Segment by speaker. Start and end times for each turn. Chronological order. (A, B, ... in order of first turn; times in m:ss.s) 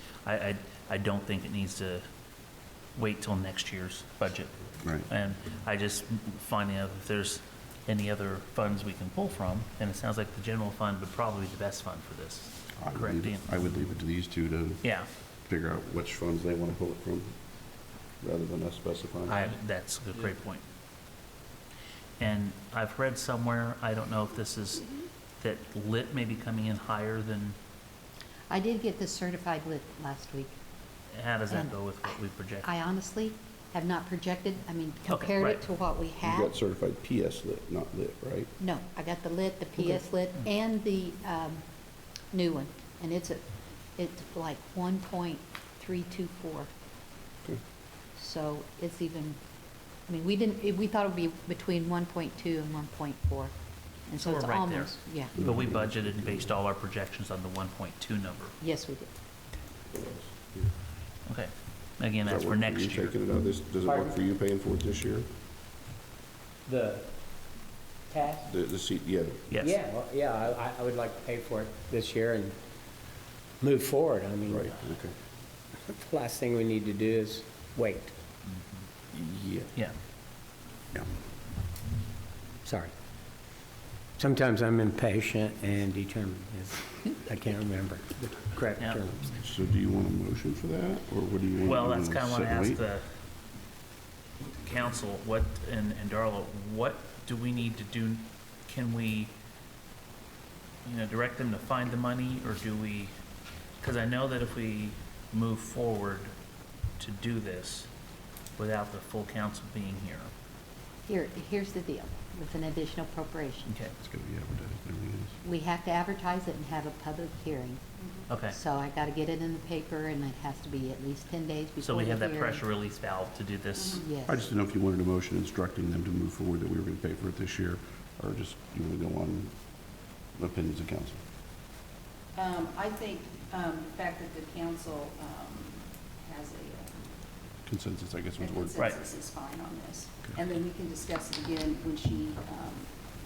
0:00.2-0:02.0 A
0:03.0-0:04.5 A
0:05.0-0:13.7 A
0:12.8-0:14.9 B
0:14.8-0:15.1 A
0:15.4-0:17.4 B
0:18.2-0:19.4 B
0:19.3-0:20.6 A
0:22.2-0:24.9 A
0:25.4-0:27.6 A
0:28.5-0:30.6 C
0:31.1-0:32.7 A
0:31.5-0:31.8 C
0:32.6-0:36.5 C
0:35.1-0:35.6 A
0:36.2-0:38.5 B
0:38.6-0:41.6 C
0:42.3-0:43.4 C
0:44.0-0:46.7 C
0:48.2-0:49.4 C
0:50.1-0:53.5 C
0:54.1-0:55.4 C
0:54.2-0:58.6 A
0:55.4-0:56.5 B
0:58.6-0:59.1 C
0:59.9-1:00.7 B
1:01.3-1:03.1 A
1:02.2-1:05.3 B
1:03.8-1:04.1 D
1:06.6-1:07.2 D
1:08.1-1:08.5 D
1:08.4-1:09.5 B
1:09.5-1:09.8 A
1:09.6-1:12.5 D
1:13.6-1:14.7 D
1:14.5-1:15.1 B
1:15.7-1:18.2 D
1:19.1-1:19.7 B
1:22.6-1:22.9 D
1:24.2-1:29.2 D
1:29.2-1:32.8 B
1:31.6-1:33.0 A
1:34.6-1:39.3 A
1:40.8-1:43.1 A
1:43.8-1:46.3 A
1:47.0-1:47.9 A
1:48.6-1:50.3 A
1:51.0-1:53.7 C
1:53.7-1:53.9 A
1:54.0-1:55.4 B
1:55.4-1:57.8 C
1:58.0-1:58.3 E
1:58.3-1:58.6 A
1:58.5-2:02.6 C
2:01.8-2:04.0 A
2:03.7-2:04.1 E
2:04.0-2:04.5 C
2:04.3-2:09.5 B
2:10.4-2:11.2 B
2:12.3-2:17.1 E
2:17.6-2:18.9 B
2:18.4-2:22.9 E